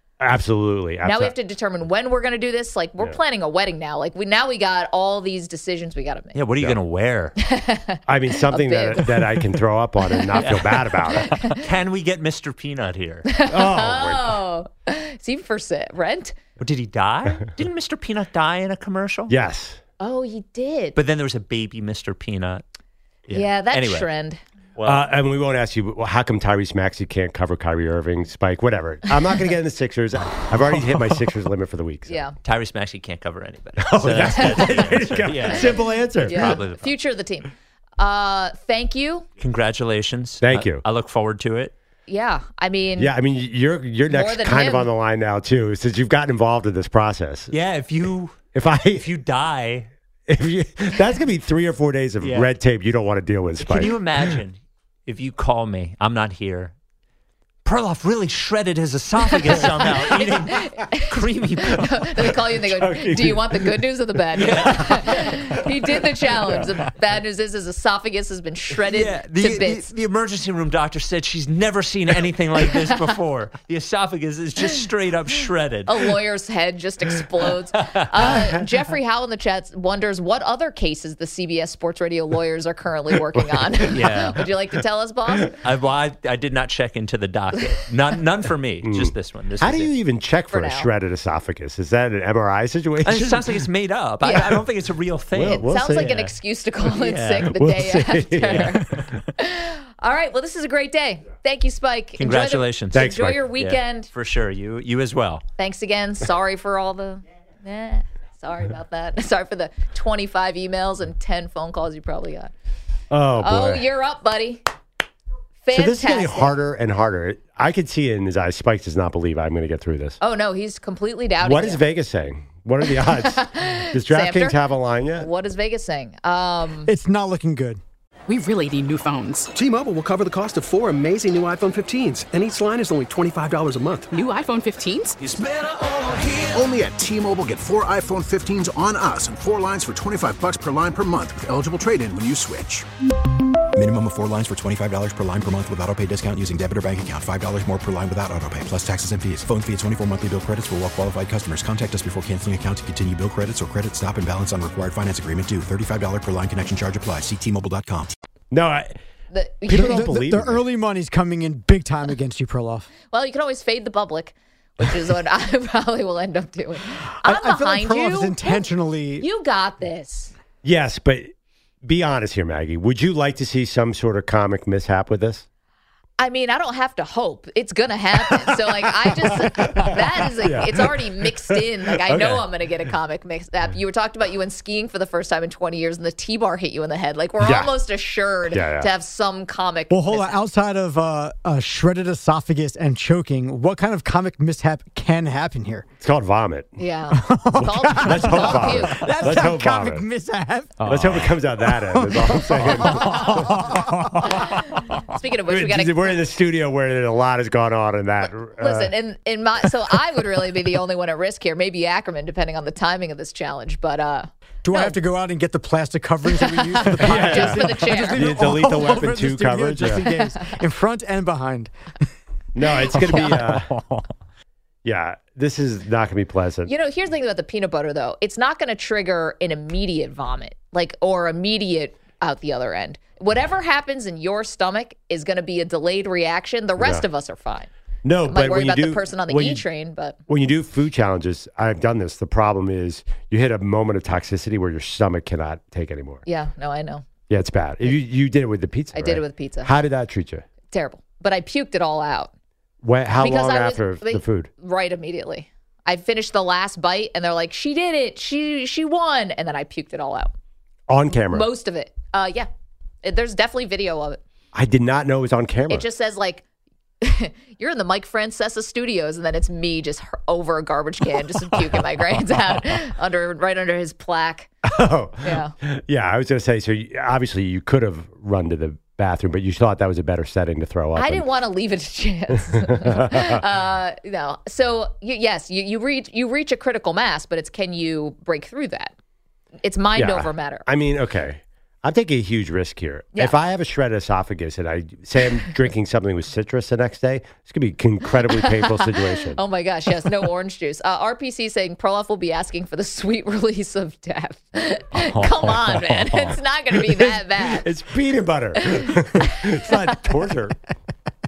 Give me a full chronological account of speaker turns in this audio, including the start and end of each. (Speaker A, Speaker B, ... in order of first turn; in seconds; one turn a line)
Speaker A: 0.2-1.4
Speaker B: 1.0-6.4
Speaker C: 6.3-7.4
Speaker B: 7.4-9.5
Speaker A: 8.1-11.3
Speaker B: 10.1-11.6
Speaker C: 10.3-13.3
Speaker B: 13.3-16.4
Speaker A: 13.5-14.4
Speaker C: 16.6-19.3
Speaker A: 19.3-19.8
Speaker B: 20.0-21.0
Speaker C: 20.9-22.6
Speaker C: 23.3-24.1
Speaker B: 23.3-24.4
Speaker C: 24.8-25.1
Speaker A: 24.9-32.2
Speaker B: 32.1-32.4
Speaker C: 32.4-36.9
Speaker A: 33.8-36.6
Speaker B: 34.2-34.8
Speaker B: 36.2-39.3
Speaker C: 39.4-41.7
Speaker A: 40.4-40.8
Speaker B: 42.1-43.1
Speaker A: 43.0-47.5
Speaker B: 44.1-44.9
Speaker C: 47.5-49.9
Speaker A: 48.5-49.0
Speaker A: 50.3-54.3
Speaker C: 52.2-52.5
Speaker C: 53.6-56.7
Speaker C: 57.6-62.0
Speaker B: 59.3-69.9
Speaker A: 62.2-66.7
Speaker C: 64.3-65.4
Speaker C: 68.8-76.2
Speaker B: 72.7-73.1
Speaker B: 75.9-85.5
Speaker C: 77.7-78.5
Speaker A: 83.3-84.4
Speaker C: 83.9-84.4
Speaker C: 85.6-89.9
Speaker A: 88.8-93.6
Speaker B: 90.5-90.9
Speaker C: 93.0-97.5
Speaker B: 94.2-94.6
Speaker A: 95.3-96.2
Speaker B: 95.5-104.1
Speaker A: 97.4-99.1
Speaker C: 98.4-98.8
Speaker C: 102.2-105.5
Speaker A: 102.9-103.5
Speaker B: 105.6-112.5
Speaker A: 113.1-113.9
Speaker B: 113.4-114.6
Speaker B: 115.6-116.6
Speaker A: 115.7-120.2
Speaker B: 120.2-121.8
Speaker A: 121.4-125.3
Speaker B: 122.9-124.6
Speaker B: 125.2-126.9
Speaker D: 126.9-127.8
Speaker E: 128.3-129.5
Speaker F: 129.6-134.0
Speaker E: 134.1-135.2
Speaker G: 136.0-142.9
Speaker H: 143.8-158.2
Speaker A: 158.5-159.0
Speaker B: 159.3-160.0
Speaker A: 159.7-160.7
Speaker D: 159.7-162.9
Speaker B: 163.1-170.3
Speaker D: 167.2-169.3
Speaker A: 170.6-171.3
Speaker A: 171.8-175.4
Speaker B: 176.2-190.4
Speaker A: 179.4-179.9
Speaker A: 180.4-182.5
Speaker A: 187.4-187.7
Speaker A: 188.5-188.9
Speaker D: 189.9-195.9
Speaker A: 196.0-196.8
Speaker B: 196.8-199.1
Speaker D: 197.1-204.9
Speaker A: 197.6-200.1
Speaker A: 200.8-203.7
Speaker B: 203.2-203.4
Speaker B: 204.3-206.2
Speaker A: 205.5-208.9
Speaker B: 208.2-215.0
Speaker D: 214.6-221.7
Speaker B: 216.4-218.2
Speaker A: 217.0-220.1
Speaker A: 222.6-223.7
Speaker D: 223.1-224.0
Speaker B: 223.1-223.4
Speaker A: 224.8-226.7
Speaker B: 226.7-237.7
Speaker A: 236.8-237.1
Speaker A: 238.1-239.7
Speaker B: 238.3-240.2
Speaker A: 240.3-246.2
Speaker B: 246.2-247.1
Speaker A: 247.3-250.4
Speaker B: 248.9-249.7
Speaker B: 250.7-252.3
Speaker A: 252.8-254.5
Speaker B: 253.2-260.3
Speaker A: 260.9-261.5
Speaker B: 261.1-262.5
Speaker B: 263.0-264.2
Speaker A: 264.5-265.9
Speaker B: 265.7-266.4
Speaker B: 267.0-274.5
Speaker A: 274.6-281.3
Speaker B: 275.2-275.5
Speaker B: 280.9-288.9
Speaker A: 282.8-283.4
Speaker B: 289.6-290.7
Speaker A: 289.9-299.4
Speaker B: 298.3-307.7
Speaker C: 304.9-306.4
Speaker A: 306.9-310.6
Speaker B: 308.6-309.7